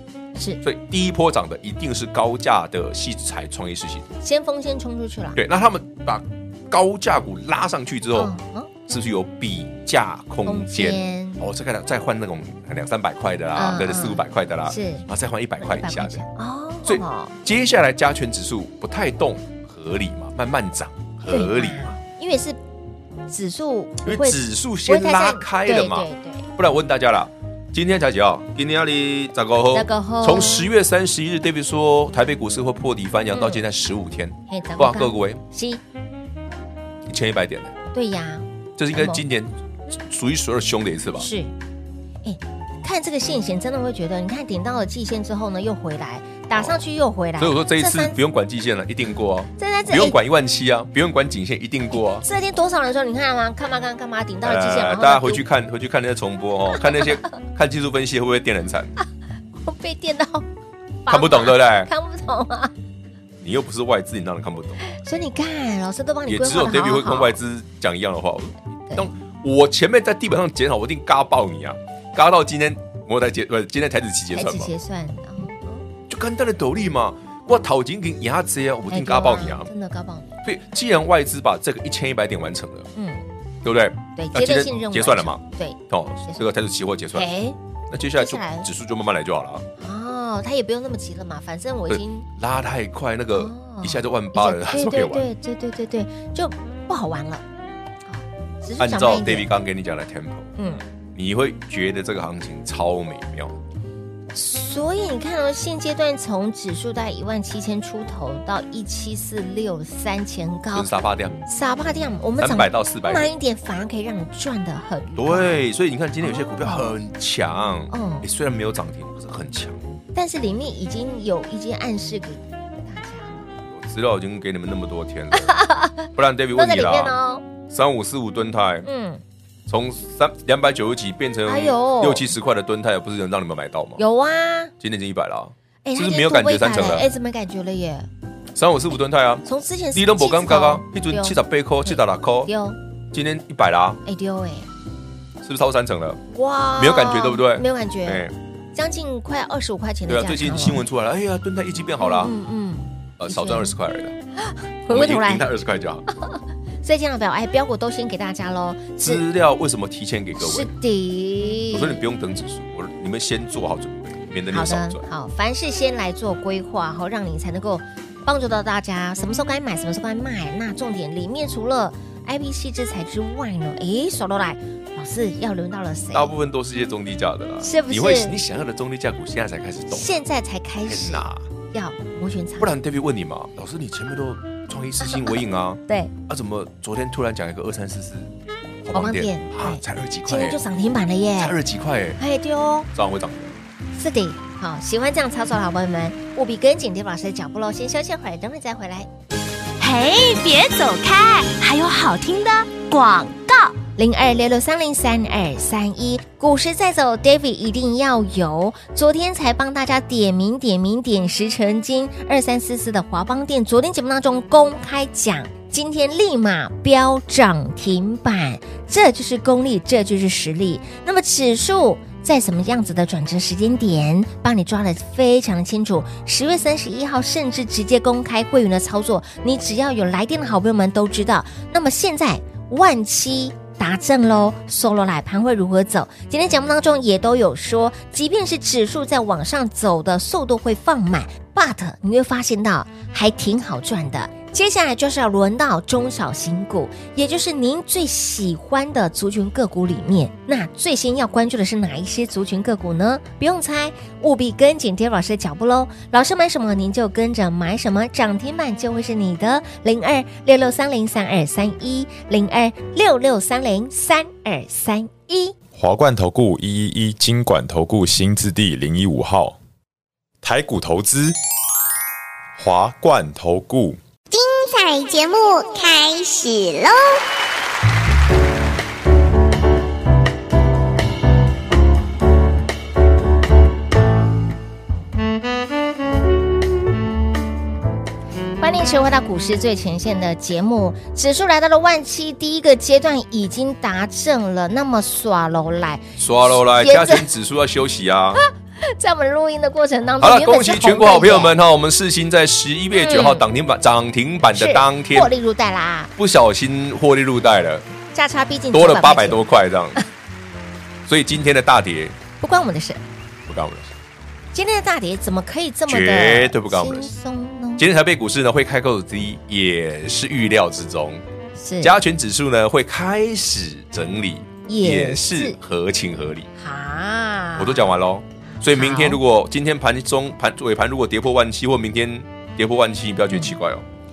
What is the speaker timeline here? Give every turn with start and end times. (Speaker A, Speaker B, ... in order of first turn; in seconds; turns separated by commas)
Speaker A: 0.3-0.6, Speaker B: 0.6-4.1, Speaker A: 4.2-5.4, Speaker B: 5.3-8.3, Speaker A: 8.1-8.7, Speaker B: 8.9-16.2, Speaker A: 10.4-11.4, Speaker A: 13.5-15.1, Speaker A: 15.6-17.4, Speaker B: 16.9-21.9, Speaker A: 21.3-22.6, Speaker A: 23.3-26.5, Speaker B: 24.0-35.4, Speaker A: 29.7-30.7, Speaker A: 33.3-33.6, Speaker A: 34.5-35.8, Speaker B: 37.0-37.7, Speaker A: 37.9-39.2, Speaker B: 38.8-41.3, Speaker A: 41.2-41.5, Speaker A: 42.2-48.2, Speaker B: 46.5-46.8, Speaker B: 47.4-52.2, Speaker A: 49.6-50.2, Speaker A: 51.9-55.4, Speaker B: 54.4-58.9, Speaker A: 59.6-60.5, Speaker A: 61.0-62.7, Speaker B: 61.1-61.9, Speaker B: 63.4-64.8, Speaker A: 64.8-67.4, Speaker B: 66.3-74.7, Speaker A: 74.3-75.8, Speaker B: 76.1-79.7, Speaker A: 78.9-80.3, Speaker B: 80.4-82.9, Speaker A: 83.0-83.2, Speaker B: 83.6-87.3, Speaker A: 84.2-86.4, Speaker A: 87.1-87.5, Speaker B: 87.9-89.7, Speaker A: 88.2-88.7, Speaker A: 89.8-92.3, Speaker B: 91.9-95.3, Speaker A: 93.3-97.4, Speaker A: 98.1-99.5, Speaker B: 98.8-100.5, Speaker A: 100.6-100.8, Speaker B: 101.1-103.6, Speaker A: 104.3-110.9, Speaker B: 110.7-111.4, Speaker A: 111.5-115.6, Speaker B: 112.4-113.3, Speaker B: 115.2-119.8, Speaker A: 116.2-116.9, Speaker A: 117.9-118.3, Speaker A: 120.1-123.5, Speaker B: 123.5-125.5, Speaker A: 125.3-127.4, Speaker B: 126.1-128.9, Speaker A: 128.8-129.2, Speaker B: 129.7-134.0, Speaker A: 131.4-132.3, Speaker A: 134.0-134.7, Speaker B: 134.8-137.1, Speaker A: 135.8-138.1, Speaker B: 138.5-142.5, Speaker A: 139.4-142.8, Speaker B: 143.1-144.0, Speaker A: 144.0-144.7, Speaker B: 145.4-146.2, Speaker A: 146.3-150.8, Speaker B: 146.8-148.3, Speaker B: 150.1-152.3, Speaker A: 152.0-153.8, Speaker B: 153.2-154.2, Speaker A: 154.4-155.4, Speaker B: 154.9-156.0, Speaker A: 156.2-159.2, Speaker B: 159.0-160.7, Speaker A: 160.4-162.0, Speaker B: 161.7-165.1, Speaker A: 164.5-176.3, Speaker B: 176.1-180.1, Speaker A: 177.6-178.4, Speaker A: 179.9-182.7, Speaker B: 180.8-181.5, Speaker B: 182.6-188.3, Speaker A: 185.1-185.3, Speaker A: 185.9-186.1, Speaker B: 188.8-190.6, Speaker A: 188.9-191.6, Speaker B: 191.4-192.2, Speaker A: 192.2-192.9, Speaker B: 192.9-193.6, Speaker A: 193.9-199.1, Speaker C: 199.8-203.7, Speaker A: 203.8-265.6, Speaker D: 265.7-269.6, Speaker D: 270.4-271.4, Speaker D: 272.6-274.0, Speaker E: 274.3-277.2, Speaker A: 288.6-297.3, Speaker B: 296.2-298.4, Speaker A: 298.4-301.6, Speaker B: 300.2-305.3, Speaker A: 302.9-303.4, Speaker A: 304.5-306.1, Speaker B: 306.2-307.8, Speaker A: 308.1-309.4, Speaker B: 308.7-310.0, Speaker B: 311.1-312.2, Speaker A: 312.4-313.0, Speaker B: 313.4-313.9, Speaker A: 314.5-317.8, Speaker B: 315.9-317.1, Speaker B: 317.8-321.2, Speaker A: 321.6-321.9, Speaker B: 321.8-326.5, Speaker A: 324.7-325.6, Speaker A: 326.6-327.9, Speaker B: 327.6-333.8, Speaker A: 328.5-329.2